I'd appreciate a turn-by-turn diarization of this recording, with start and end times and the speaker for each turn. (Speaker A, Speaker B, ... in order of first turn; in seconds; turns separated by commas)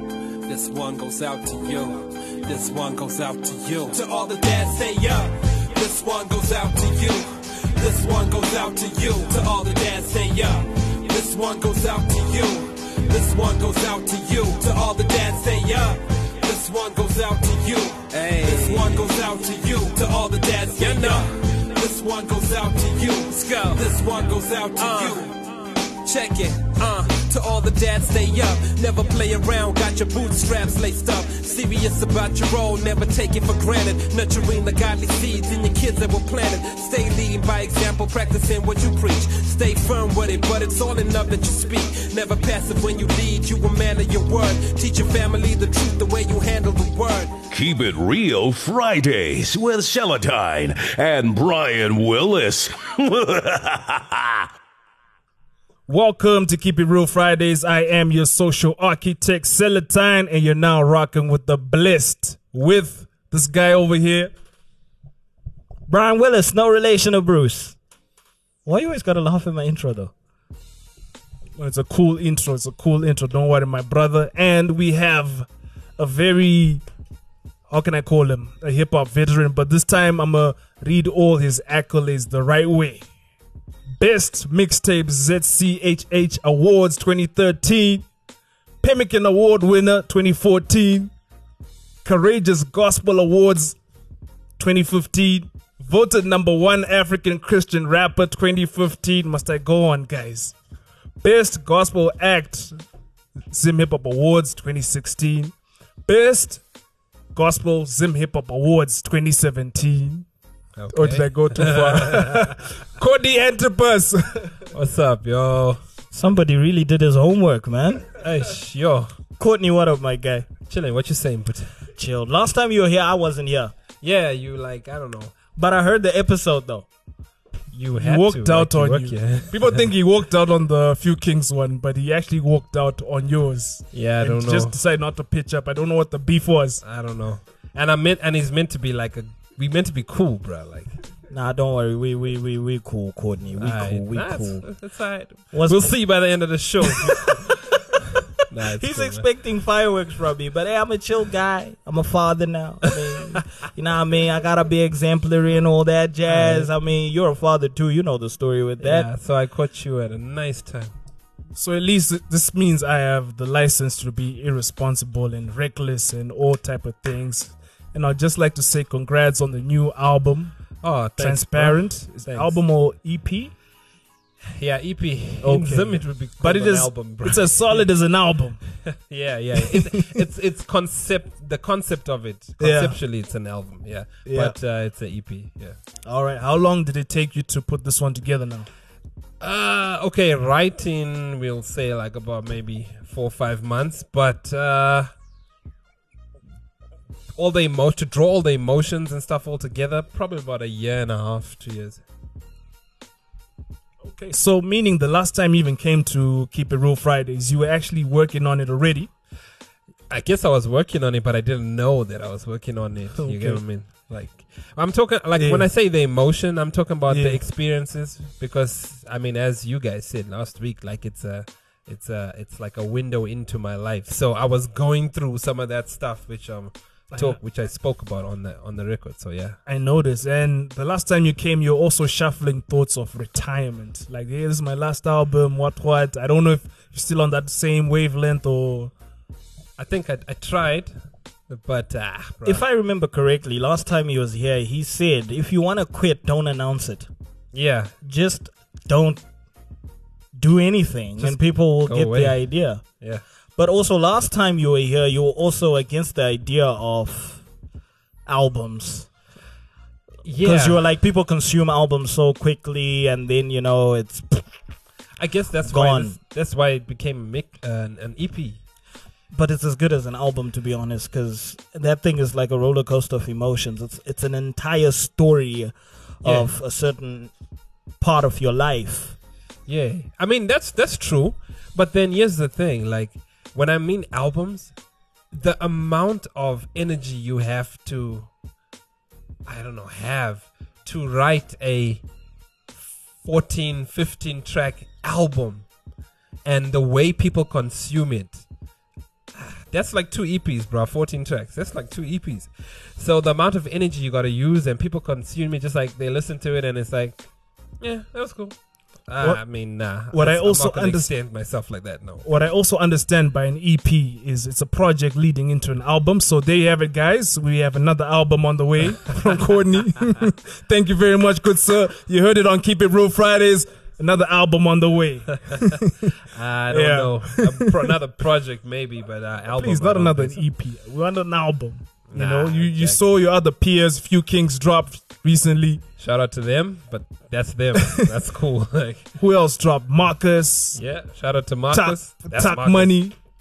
Speaker A: 0.4-25.4, Speaker B: 18.4-19.0, Speaker B: 20.9-21.2, Speaker B: 24.8-25.2, Speaker A: 26.0-47.4, Speaker C: 47.5-54.5, Speaker D: 55.9-64.3, Speaker E: 65.9-67.8, Speaker E: 68.7-70.1, Speaker D: 71.6-76.8, Speaker D: 77.7-83.0, Speaker D: 84.0-88.0, Speaker D: 88.8-91.1, Speaker D: 92.0-93.8, Speaker D: 94.6-100.5, Speaker D: 101.2-102.8, Speaker D: 103.5-105.5, Speaker D: 106.0-106.6, Speaker D: 107.3-110.2, Speaker B: 110.8-112.5, Speaker D: 110.9-114.6, Speaker B: 114.7-115.8, Speaker E: 116.1-118.1, Speaker B: 118.2-119.1, Speaker E: 119.4-120.5, Speaker B: 120.7-121.7, Speaker E: 122.0-123.7, Speaker B: 124.0-125.3, Speaker E: 125.5-126.8, Speaker B: 127.7-129.9, Speaker D: 128.0-136.8, Speaker B: 133.9-134.8, Speaker B: 136.8-140.9, Speaker E: 141.3-144.7, Speaker B: 143.6-147.5, Speaker E: 145.5-146.2, Speaker B: 148.5-149.3, Speaker E: 148.7-159.1, Speaker D: 156.3-156.7, Speaker B: 158.8-160.9, Speaker D: 161.5-170.6, Speaker B: 170.8-172.6, Speaker D: 171.2-173.5, Speaker B: 174.5-177.9, Speaker D: 175.4-178.6, Speaker B: 178.8-185.8, Speaker D: 179.6-180.1, Speaker D: 182.6-183.0, Speaker D: 184.2-184.6, Speaker D: 186.0-188.7, Speaker B: 189.4-195.1, Speaker B: 197.3-202.0, Speaker D: 204.0-209.1, Speaker B: 210.1-229.6, Speaker D: 213.2-213.6, Speaker D: 215.3-215.7, Speaker D: 217.1-217.4, Speaker D: 227.1-227.4, Speaker D: 229.7-238.9, Speaker B: 239.8-241.0, Speaker B: 241.5-242.6, Speaker E: 242.4-247.1, Speaker B: 247.5-247.9, Speaker E: 248.0-249.2, Speaker E: 250.4-252.8, Speaker B: 251.2-253.2, Speaker E: 253.6-257.4, Speaker E: 258.3-259.1, Speaker B: 260.2-260.8, Speaker E: 260.4-264.5, Speaker B: 265.2-268.6, Speaker E: 265.6-266.2, Speaker E: 269.3-277.3, Speaker B: 276.2-276.5, Speaker E: 278.0-279.1, Speaker B: 279.7-284.7, Speaker B: 285.3-288.3, Speaker B: 289.4-292.0, Speaker B: 292.7-295.7, Speaker B: 296.4-298.4, Speaker B: 299.3-307.3, Speaker B: 307.8-312.2, Speaker D: 309.2-311.1, Speaker D: 312.2-326.1, Speaker B: 326.3-330.4, Speaker D: 326.7-327.9, Speaker D: 329.5-335.8, Speaker B: 332.1-333.0, Speaker B: 336.0-339.1, Speaker D: 337.8-338.0, Speaker D: 339.2-340.8, Speaker B: 340.7-343.0, Speaker D: 341.7-343.1